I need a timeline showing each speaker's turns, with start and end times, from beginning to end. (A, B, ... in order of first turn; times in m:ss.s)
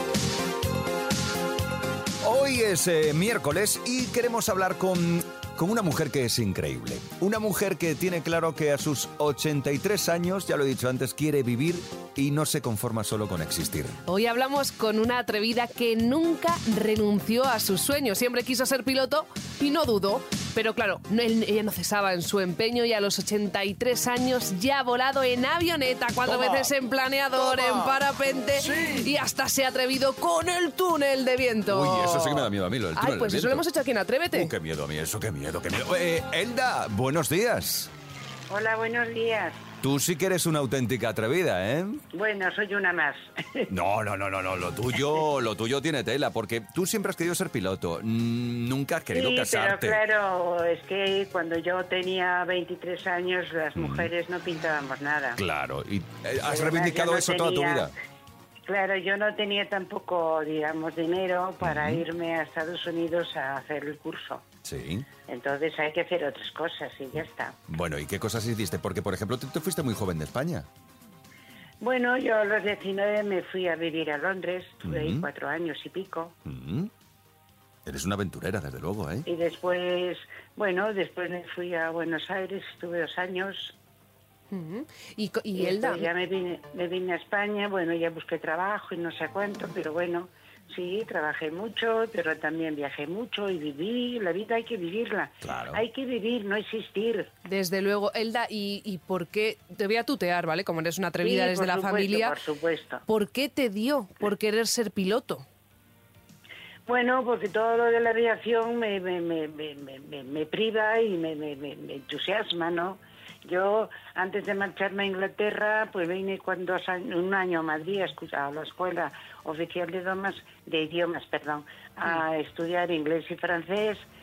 0:02.2-0:14.0 A
0:14.1-0:34.5 B
0:26.2-0:26.7 A
0:27.3-0:29.1 A
0:31.7-0:33.6 A
0:34.3-0:37.9 A
0:38.5-0:39.6 C
0:39.8-0:42.0 A
0:42.1-0:43.7 C
0:43.7-0:50.0 A
0:49.1-0:55.4 C
0:53.7-0:54.1 A
0:55.4-0:57.9 A
0:56.4-0:57.9 C
0:58.7-1:04.4 C
1:01.6-1:02.0 A
1:04.6-1:05.1 A
1:05.3-1:07.5 C
1:07.7-1:10.7 A
1:11.8-1:16.3 C
1:14.8-1:15.3 A
1:16.4-1:16.9 A
1:17.9-1:19.2 A
1:19.2-1:23.8 C
1:24.5-1:26.1 B
1:25.6-1:37.3 C
1:35.4-1:35.8 A
1:37.4-1:42.4 B
1:41.2-1:43.0 C
1:43.1-1:45.4 B
1:46.9-2:04.0 C